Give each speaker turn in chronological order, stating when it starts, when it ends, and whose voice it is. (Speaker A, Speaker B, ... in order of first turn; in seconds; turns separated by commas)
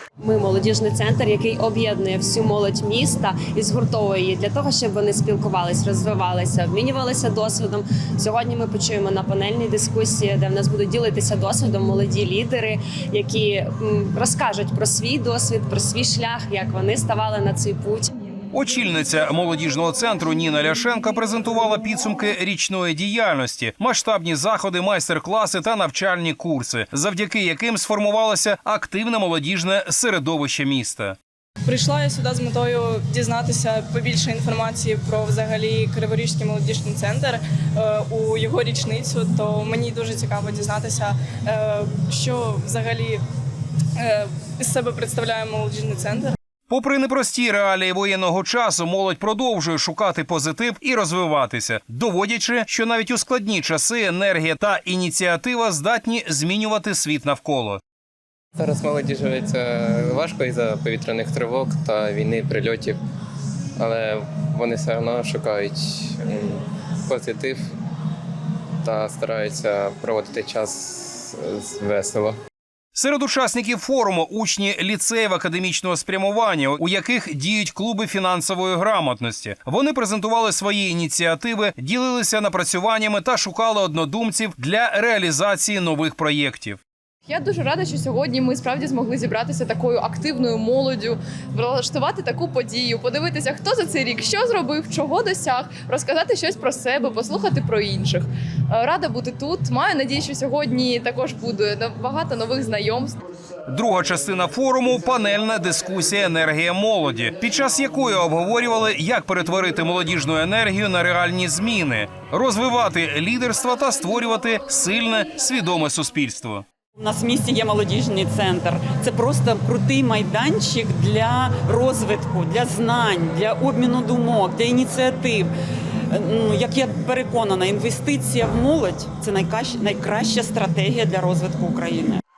Speaker A: 0.2-18.1, Speaker B: 18.5-31.2, Speaker C: 31.7-43.2, Speaker C: 44.0-46.4, Speaker B: 46.7-57.8, Speaker D: 58.6-63.0, Speaker D: 63.8-67.6, Speaker D: 68.8-72.3, Speaker B: 72.9-86.8, Speaker E: 87.3-103.2, Speaker B: 103.7-116.7, Speaker F: 117.0-125.5, Speaker F: 126.1-132.2